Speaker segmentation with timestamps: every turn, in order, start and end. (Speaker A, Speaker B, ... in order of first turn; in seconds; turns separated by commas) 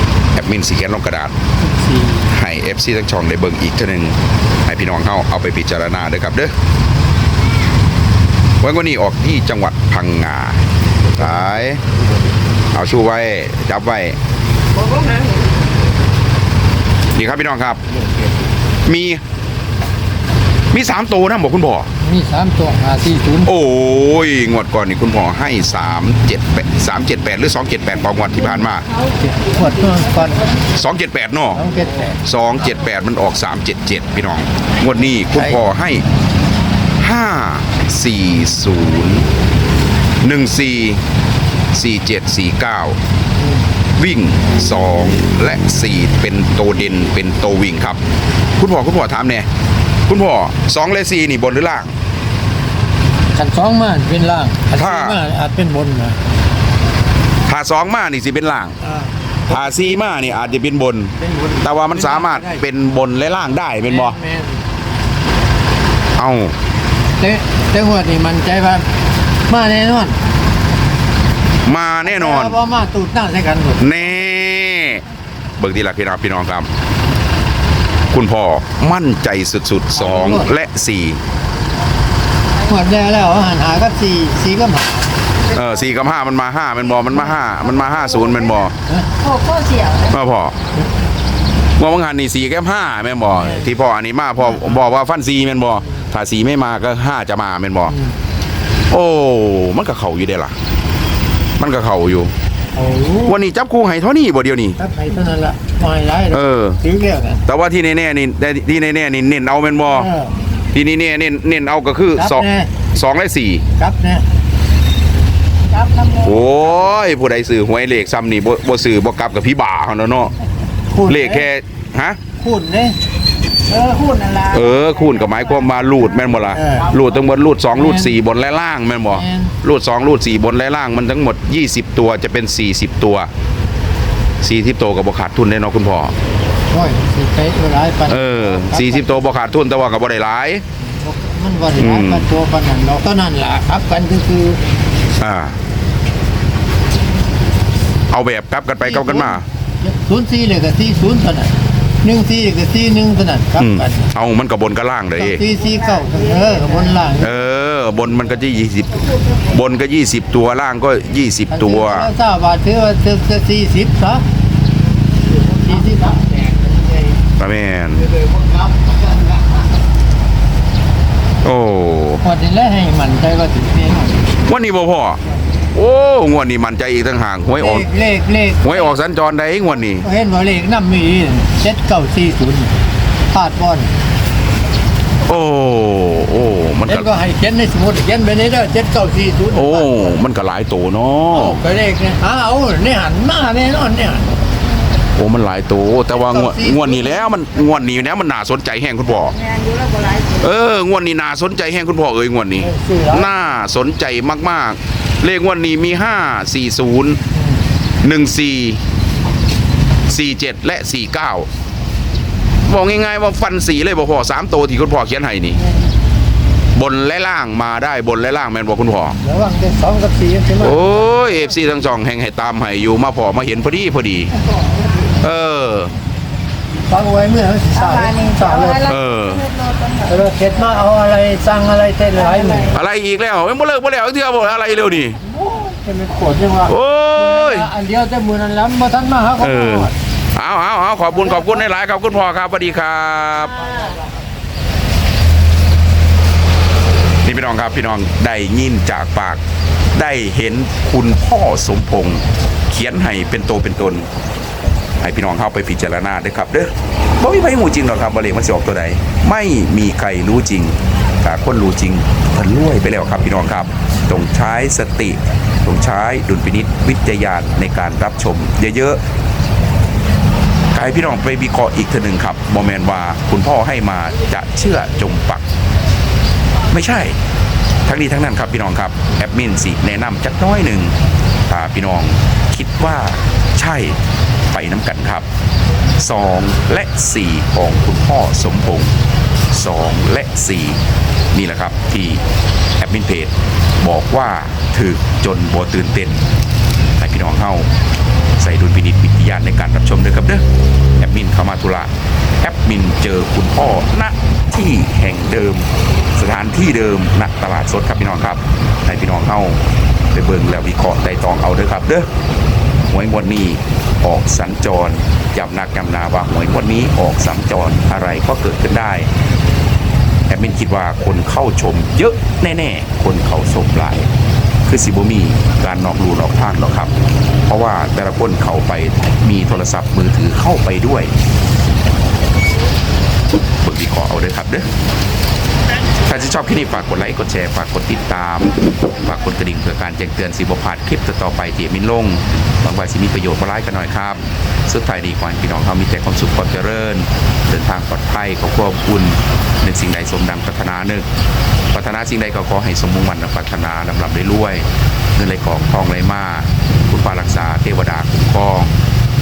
Speaker A: 0.3-1.4, Speaker B: 1.6-2.3, Speaker A: 2.3-6.5, Speaker A: 8.6-10.6, Speaker A: 11.1-11.8, Speaker A: 12.7-14.2, Speaker C: 14.7-15.4, Speaker A: 17.1-17.8, Speaker A: 18.9-19.2, Speaker A: 20.7-21.9, Speaker B: 22.0-23.5, Speaker A: 23.4-28.9, Speaker B: 29.2-30.5, Speaker A: 30.7-31.6, Speaker B: 31.5-32.1, Speaker A: 32.2-36.0, Speaker A: 37.0-39.3, Speaker A: 40.2-41.0, Speaker A: 41.7-43.0, Speaker A: 44.0-48.0, Speaker A: 48.6-49.5, Speaker A: 50.1-51.9, Speaker B: 53.3-56.2, Speaker A: 54.8-55.2, Speaker A: 57.5-58.8, Speaker B: 58.8-60.3, Speaker A: 59.5-64.2, Speaker B: 61.2-62.6, Speaker B: 63.9-64.6, Speaker A: 66.2-66.5, Speaker B: 67.2-68.9, Speaker B: 69.5-70.2, Speaker A: 71.6-72.6, Speaker B: 72.0-73.9, Speaker A: 73.8-75.0, Speaker A: 75.6-76.7, Speaker A: 78.1-81.2, Speaker B: 80.0-80.5, Speaker B: 82.7-85.1, Speaker A: 85.5-88.7, Speaker C: 87.4-90.1, Speaker A: 90.1-90.5, Speaker A: 91.8-97.9, Speaker B: 93.4-93.6, Speaker B: 97.9-98.1, Speaker A: 98.9-100.5, Speaker A: 101.6-102.3, Speaker B: 102.7-103.3, Speaker A: 103.2-104.8, Speaker B: 104.8-107.4, Speaker A: 106.3-106.8, Speaker A: 107.5-110.1, Speaker B: 109.9-110.3, Speaker A: 110.7-113.6, Speaker B: 112.2-112.7, Speaker B: 113.8-114.2, Speaker C: 115.7-116.6, Speaker A: 116.2-120.3, Speaker B: 120.9-121.5, Speaker A: 121.1-122.2, Speaker B: 122.4-123.0, Speaker C: 123.7-127.1, Speaker A: 124.5-133.3, Speaker B: 126.5-126.9, Speaker B: 127.7-128.2, Speaker B: 129.1-129.5, Speaker A: 134.4-136.1, Speaker B: 136.7-139.4, Speaker A: 138.1-140.6, Speaker B: 141.0-144.6, Speaker A: 141.8-142.3, Speaker A: 145.2-145.6, Speaker A: 148.1-149.4, Speaker B: 148.8-154.1, Speaker A: 153.6-155.4, Speaker B: 155.2-157.3, Speaker C: 155.9-156.9, Speaker A: 157.2-162.1, Speaker B: 161.5-164.2, Speaker B: 165.5-166.9, Speaker A: 167.4-168.1, Speaker A: 171.4-172.2, Speaker B: 172.2-174.2, Speaker A: 174.4-175.2, Speaker A: 175.7-177.9, Speaker B: 177.5-178.9, Speaker A: 178.6-180.1, Speaker B: 180.0-182.7, Speaker B: 183.3-183.9, Speaker A: 185.2-187.1, Speaker B: 186.9-190.1, Speaker A: 189.5-191.6, Speaker B: 191.3-194.3, Speaker A: 195.2-199.3, Speaker B: 196.1-197.4, Speaker C: 199.4-200.4, Speaker A: 200.4-207.2, Speaker B: 202.6-203.3, Speaker B: 207.3-207.6, Speaker A: 208.0-208.8, Speaker A: 210.1-211.5, Speaker A: 212.7-215.6, Speaker A: 216.7-219.2, Speaker B: 219.2-220.9, Speaker A: 220.6-224.3, Speaker A: 225.2-225.9, Speaker B: 226.9-228.8, Speaker C: 227.7-230.2, Speaker A: 228.8-229.4, Speaker B: 230.1-232.8, Speaker C: 232.2-232.7, Speaker A: 232.7-235.2, Speaker B: 235.1-239.9, Speaker A: 236.7-237.7, Speaker A: 239.4-243.6, Speaker A: 247.2-249.4, Speaker A: 249.9-254.1, Speaker A: 255.0-269.0, Speaker A: 270.7-275.4, Speaker A: 276.7-277.1, Speaker A: 277.9-280.9, Speaker A: 281.5-284.0, Speaker A: 284.5-285.2, Speaker A: 286.0-288.9, Speaker A: 289.5-290.8, Speaker A: 291.3-292.2, Speaker A: 292.8-296.2, Speaker A: 297.0-297.7, Speaker A: 298.4-300.4, Speaker A: 301.0-301.9, Speaker A: 302.4-309.6, Speaker A: 310.1-312.1, Speaker A: 312.9-319.1, Speaker A: 320.3-324.1, Speaker A: 324.6-326.9, Speaker A: 327.5-331.1, Speaker A: 333.6-334.7, Speaker A: 336.0-351.1, Speaker A: 351.7-358.7